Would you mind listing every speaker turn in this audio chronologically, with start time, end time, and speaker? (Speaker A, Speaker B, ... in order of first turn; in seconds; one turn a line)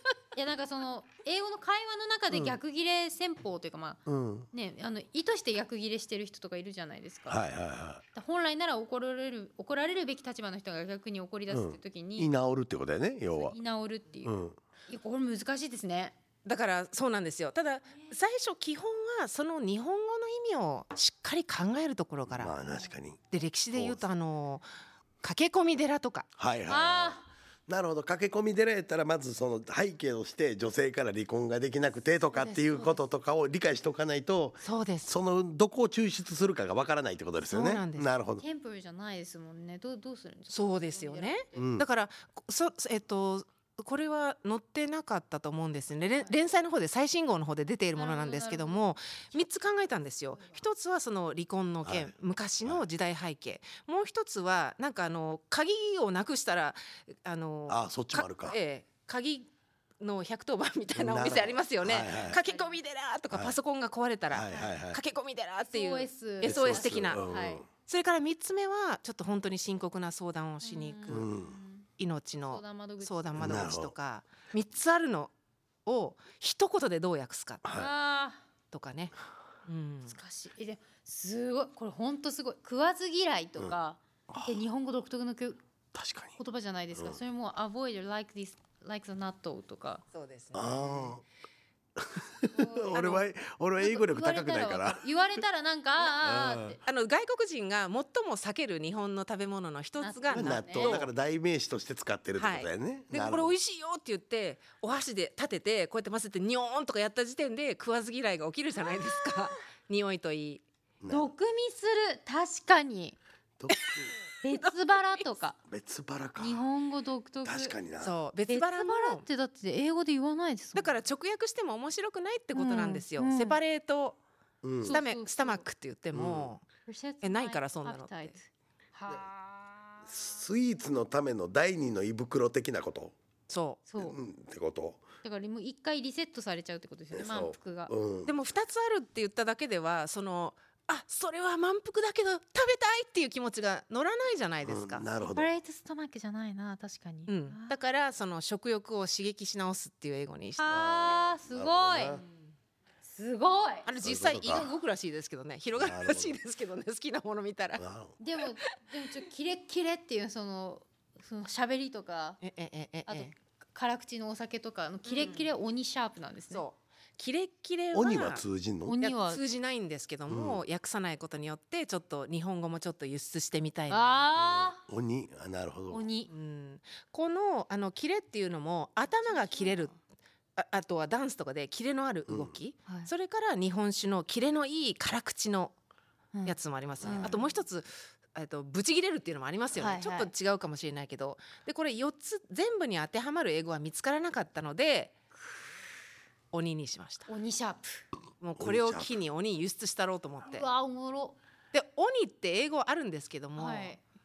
Speaker A: 0.3-4.0
Speaker B: 2.3-2.6
Speaker B: 4.0-4.5
Speaker A: 4.5-7.4
Speaker B: 7.3-8.0
Speaker A: 8.1-12.3
Speaker B: 11.5-13.6
Speaker A: 13.3-16.1
Speaker B: 14.2-14.6
Speaker C: 16.4-22.5
Speaker B: 22.2-23.2
Speaker C: 23.3-24.6
Speaker B: 23.7-24.0
Speaker C: 25.2-26.3
Speaker B: 26.4-38.4
Speaker A: 26.7-27.3
Speaker C: 32.4-33.0
Speaker C: 34.6-35.1
Speaker C: 37.5-38.1
Speaker A: 38.4-41.7
Speaker C: 40.5-59.5
Speaker B: 41.5-41.9
Speaker A: 48.0-48.8
Speaker B: 51.8-52.1
Speaker B: 57.7-58.6
Speaker C: 60.0-71.3
Speaker B: 60.9-62.4
Speaker A: 62.1-62.8
Speaker B: 64.3-65.0
Speaker A: 65.7-67.6
Speaker B: 66.4-67.7
Speaker A: 70.6-71.9
Speaker B: 71.1-71.5
Speaker C: 72.0-75.3
Speaker A: 72.5-73.3
Speaker B: 73.4-73.9
Speaker C: 75.8-77.6
Speaker B: 77.6-77.9
Speaker A: 77.7-78.4
Speaker C: 78.7-79.1
Speaker C: 79.7-80.2
Speaker A: 80.1-85.6
Speaker B: 84.3-84.6
Speaker B: 85.9-86.4
Speaker A: 86.4-90.0
Speaker C: 90.1-91.2
Speaker B: 90.5-91.2
Speaker B: 92.0-95.0
Speaker A: 92.5-93.2
Speaker A: 93.8-96.8
Speaker B: 96.2-96.8
Speaker C: 96.8-101.1
Speaker A: 100.0-101.0
Speaker B: 100.3-103.5
Speaker C: 102.4-110.6
Speaker B: 111.0-111.3
Speaker A: 111.1-113.2
Speaker B: 113.6-114.1
Speaker C: 113.7-114.7
Speaker A: 114.4-115.6
Speaker B: 115.7-116.6
Speaker A: 116.4-117.8
Speaker B: 117.4-118.1
Speaker C: 118.0-119.2
Speaker A: 118.5-121.0
Speaker C: 120.7-124.2
Speaker A: 122.5-123.6
Speaker B: 124.6-125.0
Speaker A: 124.8-125.6
Speaker C: 124.8-126.6
Speaker B: 126.1-126.5
Speaker A: 126.9-130.1
Speaker C: 127.2-128.3
Speaker B: 130.1-133.1
Speaker C: 133.5-133.8
Speaker A: 133.9-134.2
Speaker B: 134.0-135.0
Speaker A: 135.2-137.9
Speaker B: 137.1-138.3
Speaker C: 138.2-145.1
Speaker B: 144.6-145.5
Speaker A: 145.2-147.7
Speaker C: 147.3-150.7
Speaker A: 150.6-152.2
Speaker B: 150.7-152.2
Speaker A: 153.0-153.9
Speaker C: 153.8-157.8
Speaker B: 154.0-154.7
Speaker B: 155.8-156.4
Speaker B: 157.8-158.2
Speaker A: 158.2-162.4
Speaker C: 162.4-163.3
Speaker A: 163.1-166.6
Speaker C: 165.0-165.5
Speaker C: 166.5-168.4
Speaker B: 167.9-168.9
Speaker A: 168.8-169.4
Speaker C: 169.0-174.2
Speaker B: 170.3-170.6
Speaker A: 173.9-174.8
Speaker B: 174.4-176.0
Speaker A: 175.9-176.3
Speaker C: 176.3-179.9
Speaker A: 179.2-179.9
Speaker C: 180.6-185.8
Speaker B: 182.3-182.5
Speaker A: 186.3-187.4
Speaker C: 186.4-195.2
Speaker A: 189.8-190.3
Speaker C: 196.5-197.3
Speaker A: 197.3-198.0
Speaker C: 198.4-200.7
Speaker B: 198.6-199.1
Speaker A: 200.5-201.4
Speaker C: 201.7-203.9
Speaker A: 203.6-204.0